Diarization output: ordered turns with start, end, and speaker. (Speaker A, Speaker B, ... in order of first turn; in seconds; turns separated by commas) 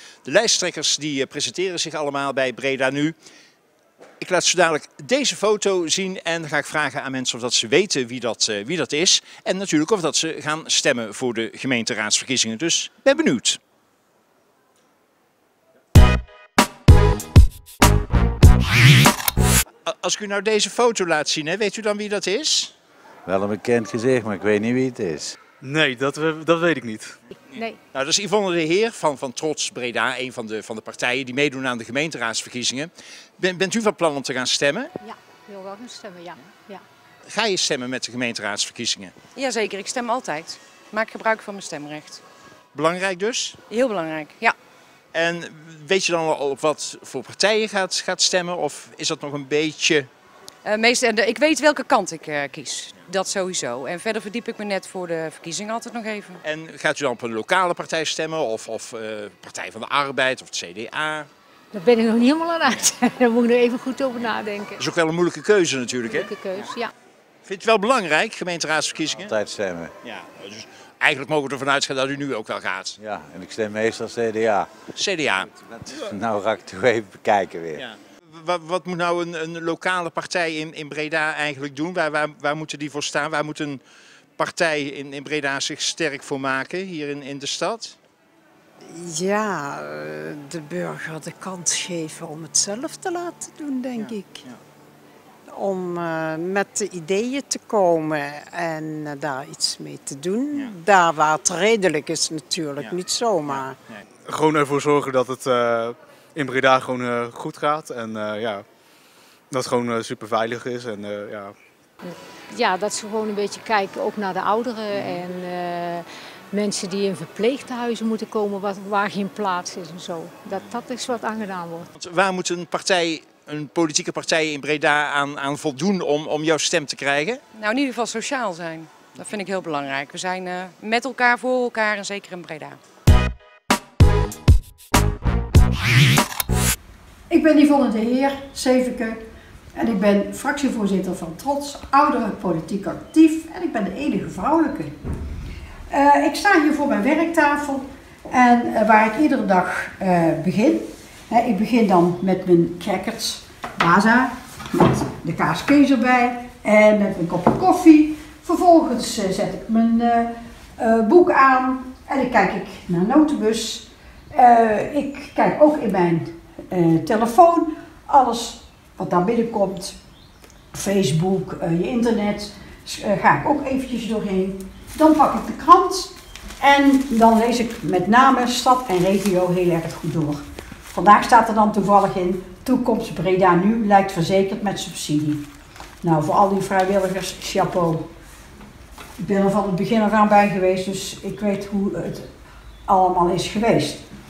Speaker A: 0.2-3.1, Speaker A: 4.2-13.6, Speaker A: 19.9-22.7, Speaker B: 23.2-25.4, Speaker C: 25.6-27.1, Speaker A: 27.5-34.9, Speaker D: 35.0-36.8, Speaker A: 37.3-39.1, Speaker E: 39.3-42.2, Speaker A: 42.7-43.6, Speaker E: 43.7-44.5, Speaker A: 45.1-50.1, Speaker E: 50.6-56.4, Speaker A: 56.4-61.3, Speaker D: 61.7-64.8, Speaker A: 64.8-66.4, Speaker D: 66.1-66.9, Speaker A: 67.5-69.3, Speaker B: 69.2-69.9, Speaker A: 70.0-73.0, Speaker B: 73.0-74.7, Speaker A: 74.9-75.5, Speaker B: 75.6-77.8, Speaker A: 77.7-83.8, Speaker A: 84.4-88.0, Speaker F: 88.9-94.4, Speaker A: 94.0-94.6, Speaker F: 95.5-103.7, Speaker A: 102.8-104.0, Speaker C: 104.3-108.6, Speaker C: 109.5-111.5, Speaker D: 112.0-121.9, Speaker A: 122.0-127.4, Speaker E: 127.5-132.8, Speaker G: 137.3-139.2, Speaker G: 139.7-144.9, Speaker G: 145.9-169.9, Speaker G: 170.7-185.4, Speaker G: 186.0-188.1, Speaker G: 189.2-192.3, Speaker G: 192.9-194.0